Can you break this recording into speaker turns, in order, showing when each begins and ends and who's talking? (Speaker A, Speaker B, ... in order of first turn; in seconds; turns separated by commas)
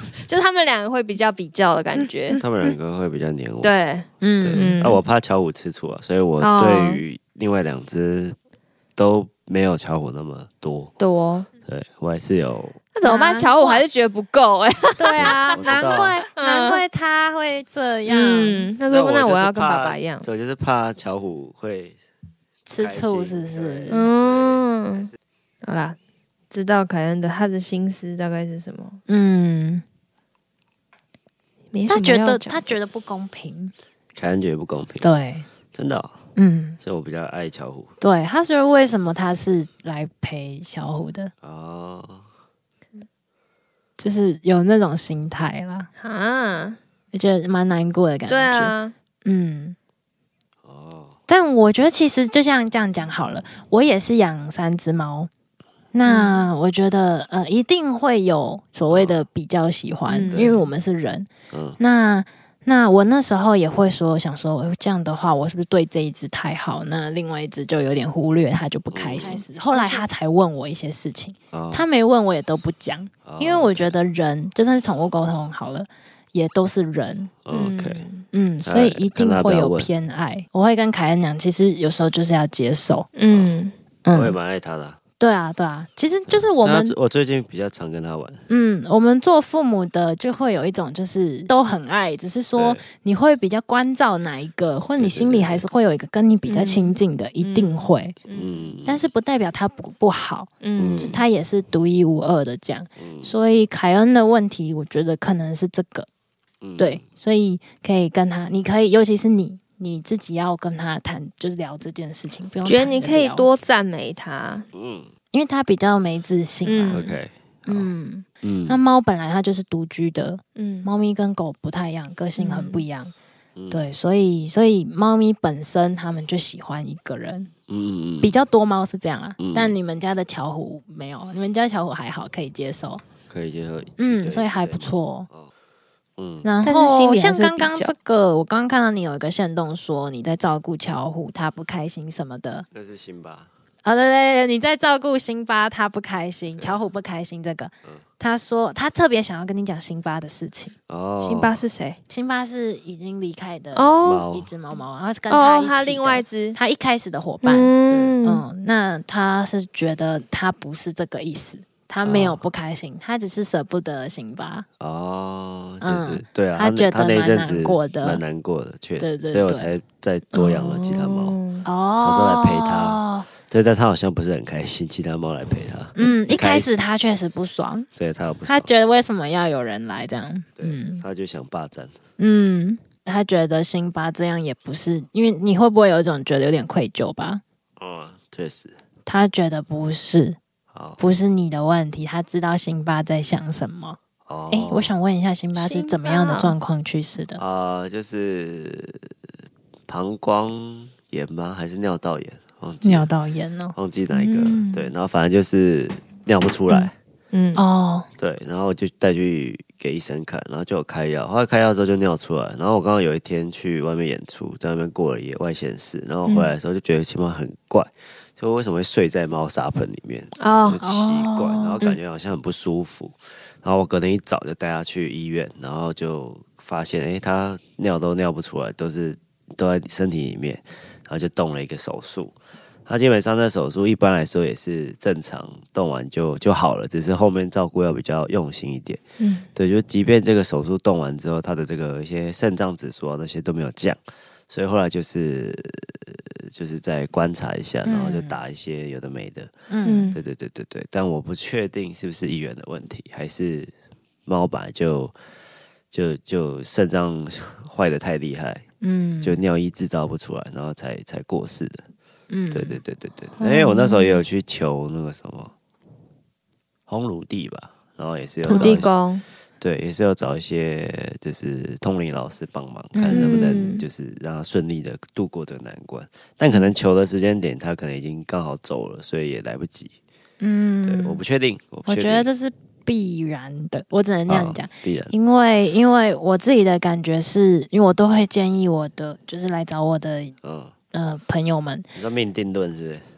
Speaker A: 0.2-2.4, Speaker B: 2.4-3.7, Speaker A: 3.6-5.0, Speaker C: 4.2-4.8, Speaker B: 4.4-8.3, Speaker A: 6.4-7.0, Speaker B: 8.9-10.9, Speaker A: 11.0-11.5, Speaker B: 11.7-12.8, Speaker A: 12.9-15.7, Speaker C: 13.0-13.8, Speaker C: 15.0-18.7, Speaker B: 15.2-16.2, Speaker A: 16.4-16.8, Speaker A: 18.1-20.2, Speaker B: 18.9-22.0, Speaker C: 22.7-24.1, Speaker B: 22.8-24.6, Speaker A: 23.9-25.1, Speaker A: 25.6-26.0, Speaker A: 26.5-29.0, Speaker C: 29.1-29.8, Speaker A: 31.7-32.6, Speaker C: 31.9-33.7, Speaker B: 34.1-35.1, Speaker C: 35.0-35.5, Speaker B: 35.7-36.2, Speaker C: 36.4-36.8, Speaker B: 36.8-37.9, Speaker C: 38.0-41.3, Speaker B: 41.4-42.3, Speaker C: 44.0-45.9, Speaker A: 46.0-46.8, Speaker C: 47.1-48.7, Speaker A: 48.3-48.9, Speaker C: 49.2-49.8, Speaker B: 50.6-51.1, Speaker C: 51.3-55.3, Speaker C: 55.9-61.3, Speaker A: 56.0-56.5, Speaker B: 58.9-59.2, Speaker A: 60.1-60.6, Speaker B: 60.3-60.6, Speaker B: 61.5-61.8, Speaker C: 61.8-77.3, Speaker B: 68.9-69.4, Speaker A: 69.2-70.1, Speaker B: 71.5-71.8, Speaker B: 73.2-73.9, Speaker B: 77.4-78.0, Speaker A: 77.5-78.2, Speaker C: 78.3-83.1, Speaker B: 78.6-79.9, Speaker A: 83.2-83.7, Speaker B: 83.3-83.6, Speaker C: 84.0-84.3, Speaker B: 84.1-85.0, Speaker C: 85.2-86.9, Speaker B: 86.3-88.5, Speaker C: 88.5-98.1, Speaker B: 92.5-92.8, Speaker B: 95.0-95.6, Speaker A: 96.5-98.7, Speaker B: 98.3-99.1, Speaker C: 98.8-106.1, Speaker A: 100.6-101.2, Speaker B: 100.8-101.2, Speaker B: 103.0-103.3, Speaker B: 106.6-107.0, Speaker C: 106.8-113.5, Speaker A: 112.6-114.7, Speaker B: 114.7-115.1, Speaker C: 115.3-117.1, Speaker A: 116.6-117.1, Speaker B: 116.9-117.9, Speaker C: 117.7-123.1, Speaker B: 118.4-118.8, Speaker A: 120.5-120.9, Speaker A: 122.4-122.8, Speaker B: 123.5-123.8, Speaker C: 123.7-127.5, Speaker B: 127.7-128.3, Speaker C: 128.2-133.0, Speaker B: 129.4-129.7, Speaker B: 133.3-135.5, Speaker C: 134.0-135.3, Speaker B: 136.2-136.5, Speaker C: 136.4-142.7, Speaker A: 136.6-137.9, Speaker B: 142.7-143.5, Speaker C: 143.8-150.7, Speaker B: 150.9-151.6, Speaker A: 151.2-152.0, Speaker C: 152.1-164.7, Speaker A: 153.7-154.3, Speaker B: 154.0-154.5, Speaker A: 155.3-156.6, Speaker A: 157.4-158.4, Speaker B: 162.0-162.4, Speaker B: 164.8-171.4, Speaker C: 165.8-168.2, Speaker C: 169.0-169.7, Speaker A: 170.3-171.6, Speaker C: 171.6-173.3, Speaker B: 172.0-176.8, Speaker C: 175.9-177.9, Speaker B: 177.9-178.7, Speaker C: 178.4-181.0, Speaker B: 180.6-182.0, Speaker C: 182.2-187.4, Speaker B: 187.8-188.8, Speaker C: 189.0-190.4, Speaker B: 190.7-191.0, Speaker C: 191.0-194.0, Speaker B: 194.2-194.9, Speaker C: 194.5-197.4, Speaker A: 195.6-196.6, Speaker B: 197.4-199.1, Speaker B: 199.9-203.1, Speaker C: 202.8-203.7, Speaker B: 203.7-206.9, Speaker A: 204.1-204.9, Speaker A: 207.3-207.6, Speaker C: 207.5-208.1, Speaker B: 208.2-232.3, Speaker A: 216.2-216.5, Speaker A: 220.4-220.8, Speaker C: 220.8-221.8, Speaker B: 232.8-239.0, Speaker A: 239.2-239.5, Speaker B: 239.5-249.5, Speaker C: 247.8-248.4, Speaker C: 249.7-250.1, Speaker A: 249.8-250.2, Speaker B: 250.1-253.7, Speaker B: 254.2-255.1, Speaker B: 255.9-258.6, Speaker C: 258.8-259.4, Speaker B: 259.2-261.8, Speaker C: 262.3-262.8, Speaker B: 262.5-265.5, Speaker A: 263.4-264.2, Speaker B: 266.9-268.9, Speaker C: 268.4-268.9, Speaker A: 268.5-269.2, Speaker B: 269.6-279.9, Speaker C: 272.9-273.7, Speaker A: 273.1-273.8, Speaker C: 280.4-281.2, Speaker B: 280.8-282.3, Speaker C: 281.9-290.3, Speaker B: 284.3-285.1, Speaker B: 290.4-290.7, Speaker C: 290.9-291.9, Speaker B: 291.9-293.1